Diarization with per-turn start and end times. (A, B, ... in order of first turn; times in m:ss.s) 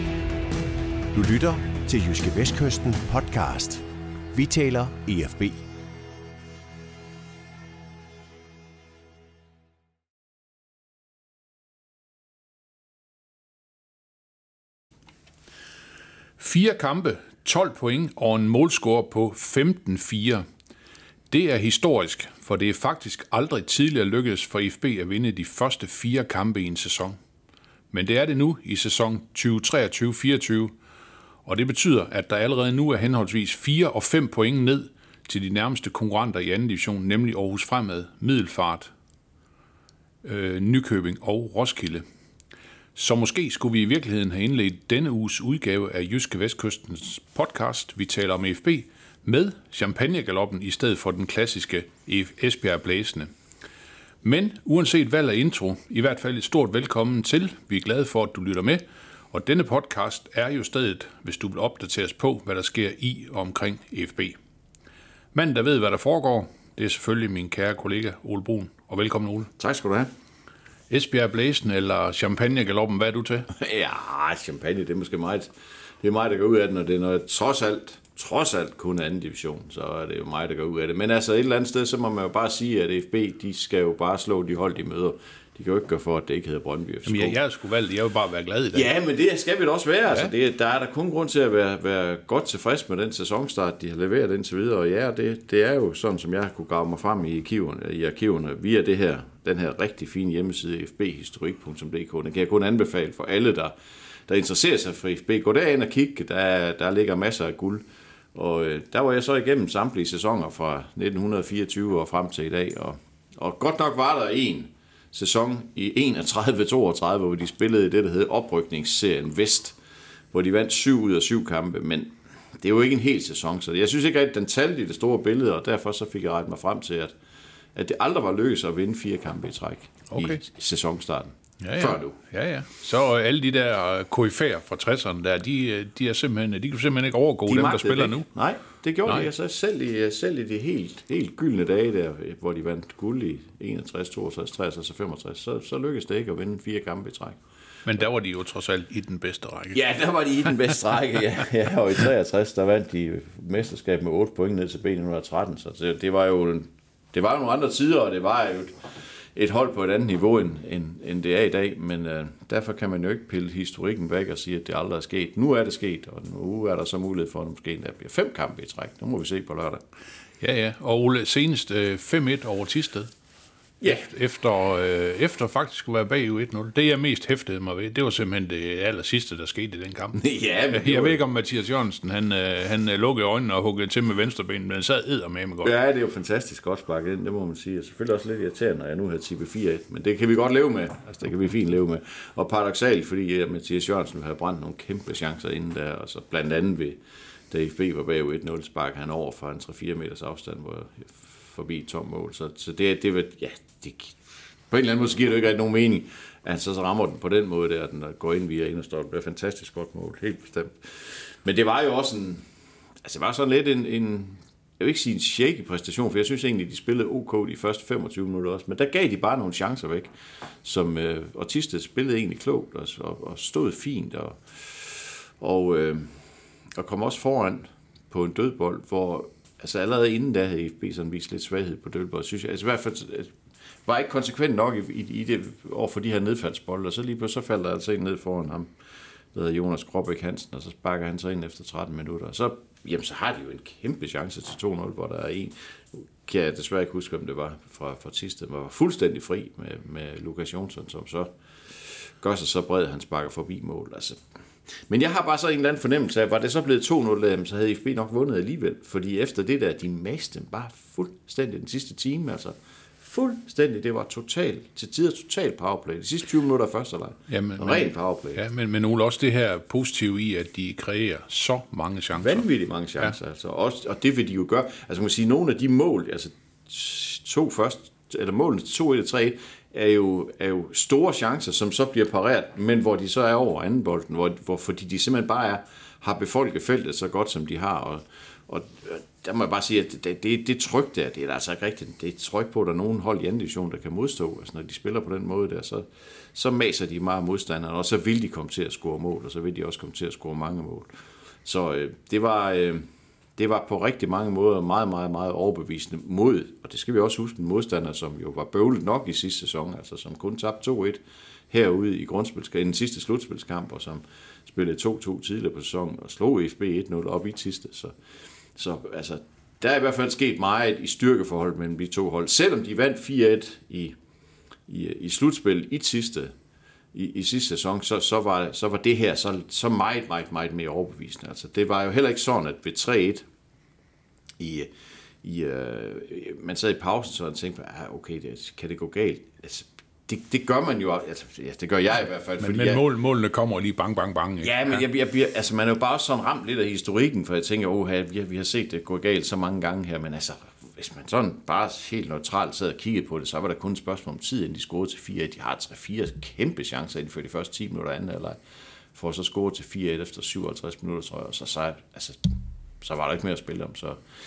0:01.1-0:05.6 A
0:16.4-0:20.5 B
0:21.3-0:27.2 B
0:27.9-0:30.8 B
0:31.4-0:38.9 B
0:40.2-0:42.0 B
0:43.0-0:53.3 B
0:54.2-1:04.4 B
1:05.3-1:09.5 B
1:09.6-1:10.1 C
1:10.9-1:13.5 B
1:13.5-1:15.5 C
1:16.0-1:27.4 C
1:27.1-1:28.9 B
1:28.7-1:43.7 C
1:44.3-1:59.8 C
2:00.3-2:07.2 C
2:07.8-2:12.2 C
2:10.1-2:10.4 B
2:11.6-2:18.3 B
2:17.5-2:27.4 C
2:27.8-2:29.8 B
2:29.7-2:38.8 C
2:39.4-2:49.8 C
2:50.4-2:53.1 B
2:53.8-2:54.1 C
2:53.8-3:05.7 B
3:00.2-3:01.2 C
3:05.6-3:17.0 C
3:17.5-3:24.2 C
3:24.7-3:32.4 C
3:33.0-3:40.1 C
3:40.6-3:46.2 C
3:46.8-3:53.3 C
3:53.9-3:58.7 C
3:59.3-4:14.2 C
4:14.9-4:28.4 C
4:27.3-4:32.5 B
4:32.2-5:00.9 C
5:01.4-5:18.0 C
5:18.6-5:24.0 C
5:24.7-5:26.3 C
5:26.9-5:33.2 C
5:34.4-5:34.7 C
5:35.2-5:42.8 C
5:42.4-5:44.8 B
5:44.4-5:58.4 C
5:58.9-6:04.0 C